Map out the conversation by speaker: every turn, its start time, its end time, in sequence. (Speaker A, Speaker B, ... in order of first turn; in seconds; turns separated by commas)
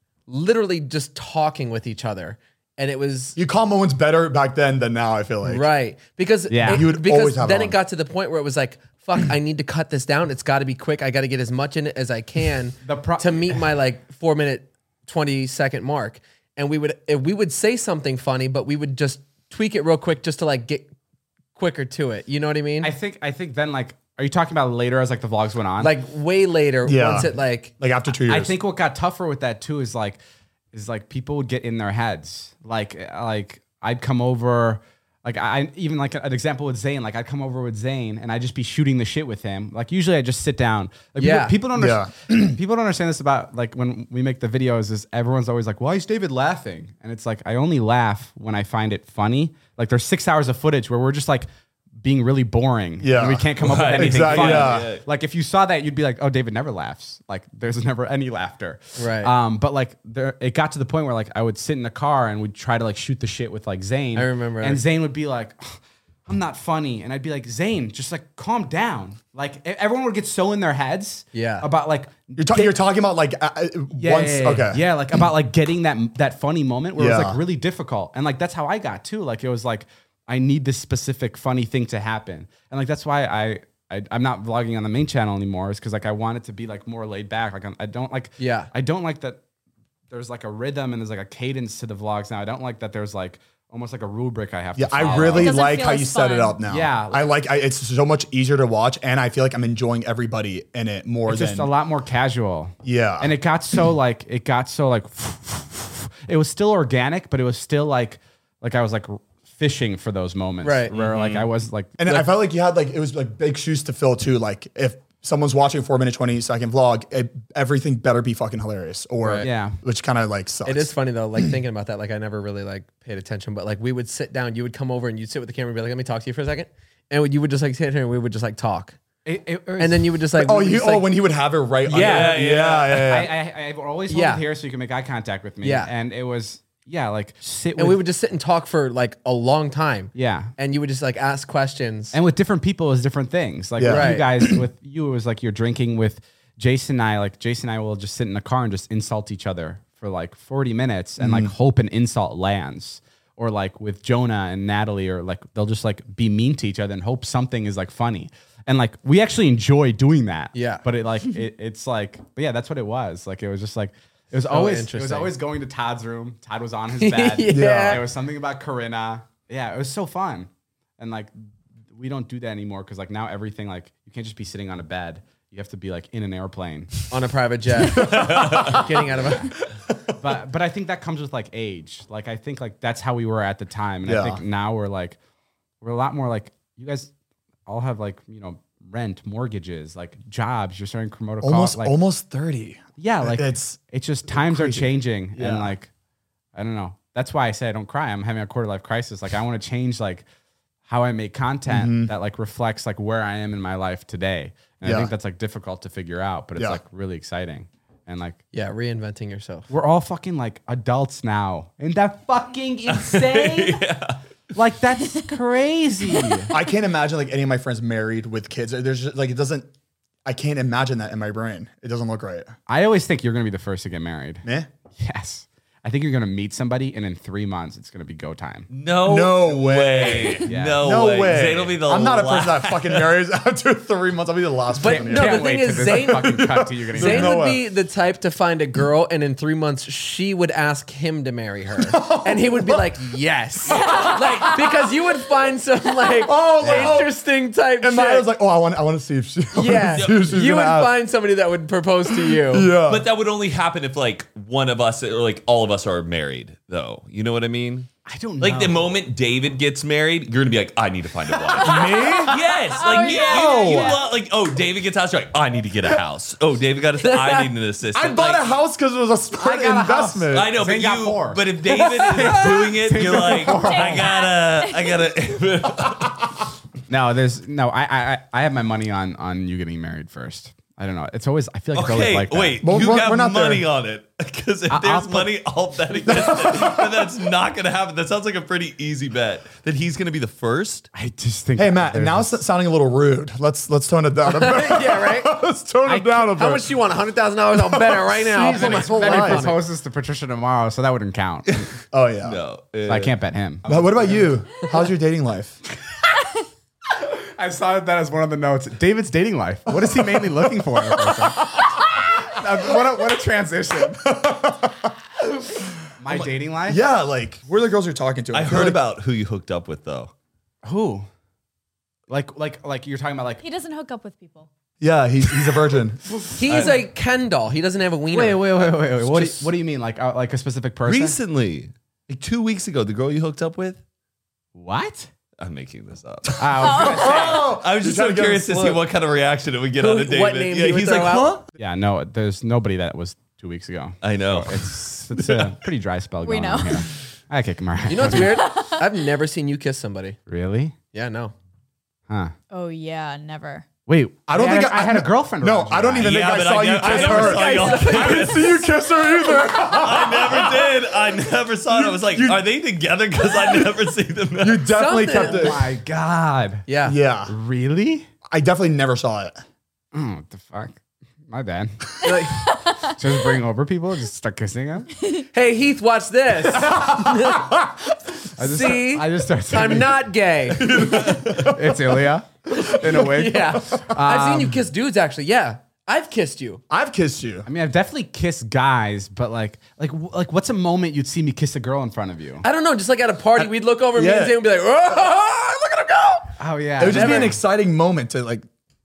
Speaker A: 0.3-3.4, Speaker B: 3.4-5.7, Speaker A: 5.5-20.9, Speaker C: 6.5-6.9, Speaker B: 6.7-7.8, Speaker C: 12.8-13.6, Speaker A: 21.6-22.9, Speaker C: 22.8-25.9, Speaker A: 25.8-27.7, Speaker B: 26.9-28.5, Speaker C: 28.3-30.2, Speaker C: 30.7-51.5, Speaker A: 41.2-41.6, Speaker B: 41.8-42.5, Speaker C: 52.0-72.8, Speaker B: 53.0-54.9, Speaker D: 53.6-55.0, Speaker A: 59.0-59.3, Speaker A: 64.2-64.8, Speaker A: 71.3-71.7, Speaker B: 72.4-74.8, Speaker C: 74.0-89.4, Speaker B: 77.0-77.4, Speaker A: 88.4-88.7, Speaker C: 90.1-95.6, Speaker B: 94.8-101.7, Speaker E: 95.3-96.6, Speaker C: 96.7-97.3, Speaker C: 101.3-112.3, Speaker B: 102.8-103.3, Speaker A: 110.6-110.9, Speaker D: 110.9-111.5, Speaker B: 112.0-120.9, Speaker C: 119.4-119.8, Speaker A: 120.7-129.0, Speaker C: 129.2-130.2, Speaker A: 129.8-131.1, Speaker B: 130.3-133.3, Speaker A: 131.9-132.4, Speaker D: 131.9-133.2, Speaker C: 132.9-138.0, Speaker A: 134.1-134.4, Speaker A: 135.6-135.9, Speaker A: 137.8-142.2, Speaker C: 140.1-140.5, Speaker C: 142.1-171.3, Speaker B: 143.8-144.6, Speaker A: 143.9-144.3, Speaker B: 151.2-151.5, Speaker A: 160.6-160.8, Speaker A: 164.4-165.3, Speaker A: 166.9-168.0, Speaker B: 167.5-168.0, Speaker C: 171.9-177.1, Speaker A: 177.1-179.5, Speaker B: 177.9-178.8, Speaker D: 178.0-178.8, Speaker B: 179.9-180.2, Speaker C: 180.2-185.2, Speaker B: 184.1-184.4, Speaker C: 185.8-187.1, Speaker C: 187.7-191.9, Speaker B: 191.4-193.8, Speaker C: 193.0-195.9, Speaker B: 194.3-195.7, Speaker C: 196.6-200.2, Speaker C: 200.9-208.4, Speaker B: 201.7-202.1, Speaker B: 204.8-205.1, Speaker A: 208.5-209.7, Speaker C: 209.7-213.8, Speaker D: 212.9-214.2, Speaker C: 214.5-216.5, Speaker B: 216.5-219.7, Speaker B: 220.2-222.5, Speaker C: 222.7-224.4, Speaker C: 225.0-228.7, Speaker D: 228.7-233.1, Speaker B: 229.1-237.6, Speaker C: 230.5-230.8, Speaker A: 234.8-248.3, Speaker C: 234.8-237.4, Speaker B: 241.8-243.1, Speaker B: 243.7-244.2, Speaker B: 246.2-247.2, Speaker C: 246.6-247.0, Speaker B: 247.8-250.9, Speaker A: 249.5-252.7, Speaker B: 252.2-253.1, Speaker D: 252.9-257.9, Speaker C: 258.1-259.0, Speaker D: 258.4-268.5, Speaker C: 261.5-262.1, Speaker B: 261.6-262.4, Speaker E: 262.7-264.0, Speaker B: 262.9-264.0, Speaker A: 267.0-267.5, Speaker B: 267.9-270.5, Speaker C: 269.3-274.1, Speaker D: 270.3-276.2, Speaker E: 273.2-275.1, Speaker C: 276.9-282.6, Speaker D: 281.7-290.9, Speaker B: 282.6-283.6, Speaker C: 284.7-285.3, Speaker B: 286.1-287.1, Speaker C: 290.9-292.4, Speaker B: 291.6-296.7, Speaker A: 294.3-295.4, Speaker C: 295.9-296.2, Speaker A: 296.3-299.6, Speaker B: 297.6-299.5, Speaker C: 298.4-301.7, Speaker B: 301.9-302.4, Speaker D: 302.2-303.1, Speaker C: 302.9-304.3, Speaker B: 303.7-305.6, Speaker C: 306.9-314.1, Speaker B: 309.8-311.7, Speaker B: 314.0-318.8, Speaker C: 316.0-316.8, Speaker D: 318.3-320.1, Speaker C: 320.6-321.1, Speaker C: 322.1-323.4, Speaker E: 323.4-324.5, Speaker B: 324.8-326.0, Speaker A: 326.4-328.5, Speaker C: 326.5-326.7, Speaker C: 328.1-331.2, Speaker D: 329.0-329.4, Speaker D: 330.9-333.8, Speaker C: 334.6-335.1, Speaker D: 335.4-341.4, Speaker C: 336.4-337.5, Speaker E: 336.6-337.3, Speaker B: 336.7-338.8, Speaker A: 339.8-341.3, Speaker C: 341.6-348.4, Speaker D: 344.0-345.6, Speaker E: 346.2-346.9, Speaker A: 347.9-350.2, Speaker E: 348.1-348.9, Speaker C: 350.3-350.8, Speaker A: 350.9-351.3, Speaker E: 352.5-353.7, Speaker C: 353.9-356.2, Speaker B: 354.3-361.0, Speaker D: 356.0-358.7, Speaker A: 356.8-358.6, Speaker D: 359.2-364.7, Speaker B: 361.7-362.4, Speaker B: 363.2-363.7, Speaker B: 364.4-365.6, Speaker A: 364.7-365.6, Speaker C: 365.2-366.7, Speaker A: 366.7-367.0, Speaker B: 366.9-367.3, Speaker C: 367.3-368.1, Speaker B: 368.3-369.4, Speaker C: 369.9-370.8, Speaker C: 371.3-372.2, Speaker A: 372.0-372.5, Speaker E: 372.1-373.0, Speaker C: 372.8-374.9, Speaker E: 375.0-375.2, Speaker A: 375.3-377.6, Speaker B: 376.6-377.8, Speaker C: 378.4-380.1, Speaker A: 378.4-380.8, Speaker B: 380.5-382.1, Speaker C: 380.9-384.6, Speaker A: 382.6-386.6, Speaker B: 383.6-383.9, Speaker B: 386.7-387.5, Speaker C: 387.5-392.5, Speaker A: 392.4-397.4, Speaker B: 393.4-394.4, Speaker C: 396.4-397.4, Speaker B: 396.8-398.5